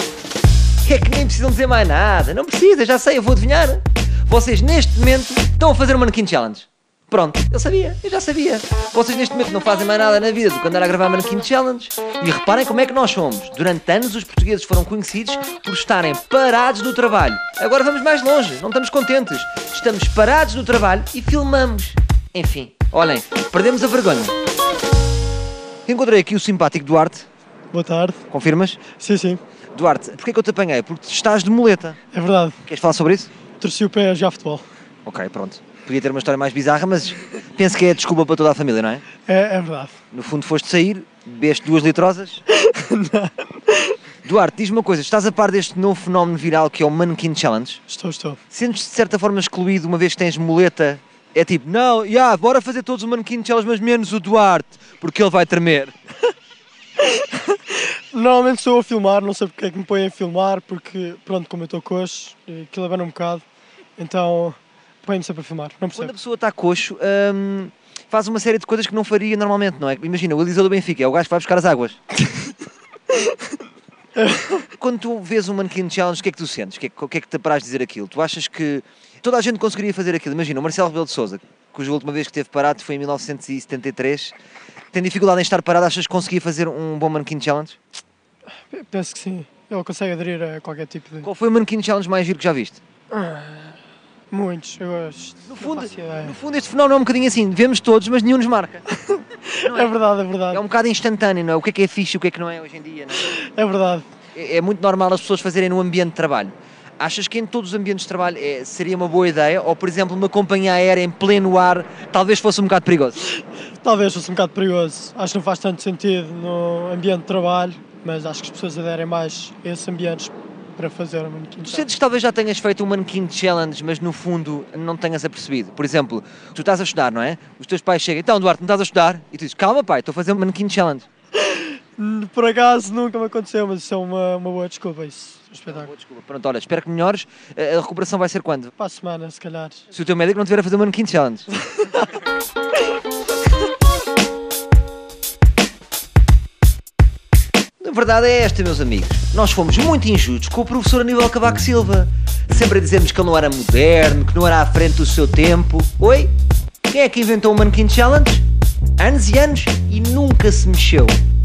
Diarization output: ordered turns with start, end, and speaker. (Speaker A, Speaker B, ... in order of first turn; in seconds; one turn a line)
Speaker A: 0.8-24.3
Speaker A: 25.9-27.3
Speaker B: 27.7-28.2
Speaker A: 28.3-28.8
Speaker B: 29.0-29.4
Speaker A: 29.8-32.0
Speaker B: 32.1-32.6
Speaker A: 32.7-33.3
Speaker B: 33.6-34.6
Speaker A: 35.1-39.0
Speaker B: 39.2-40.0
Speaker A: 40.1-42.4
Speaker B: 42.5-44.0
Speaker A: 44.2-47.8
Speaker B: 47.9-48.4
Speaker A: 48.5-55.9
Speaker B: 57.0-63.4
Speaker B: 64.0-66.1
Speaker A: 66.0-72.0
Speaker B: 74.2-74.7
Speaker A: 74.8-84.3
Speaker A: 84.9-87.8
Speaker B: 88.7-91.3
Speaker A: 91.2-92.8
Speaker B: 93.1-93.7
Speaker B: 94.3-96.3
Speaker A: 95.5-98.8
Speaker B: 98.9-100.6
Speaker A: 99.7-99.9
Speaker A: 100.5-103.3
Speaker B: 103.2-104.1
Speaker A: 104.3-113.2
Speaker B: 113.8-121.9
Speaker A: 121.6-131.1
Speaker B: 131.4-135.9
Speaker A: 135.7-138.7
Speaker B: 138.8-139.8
Speaker A: 139.9-141.5
Speaker B: 141.7-142.1
Speaker A: 147.8-156.3
Speaker A: 156.9-158.4
Speaker A: 159.0-161.2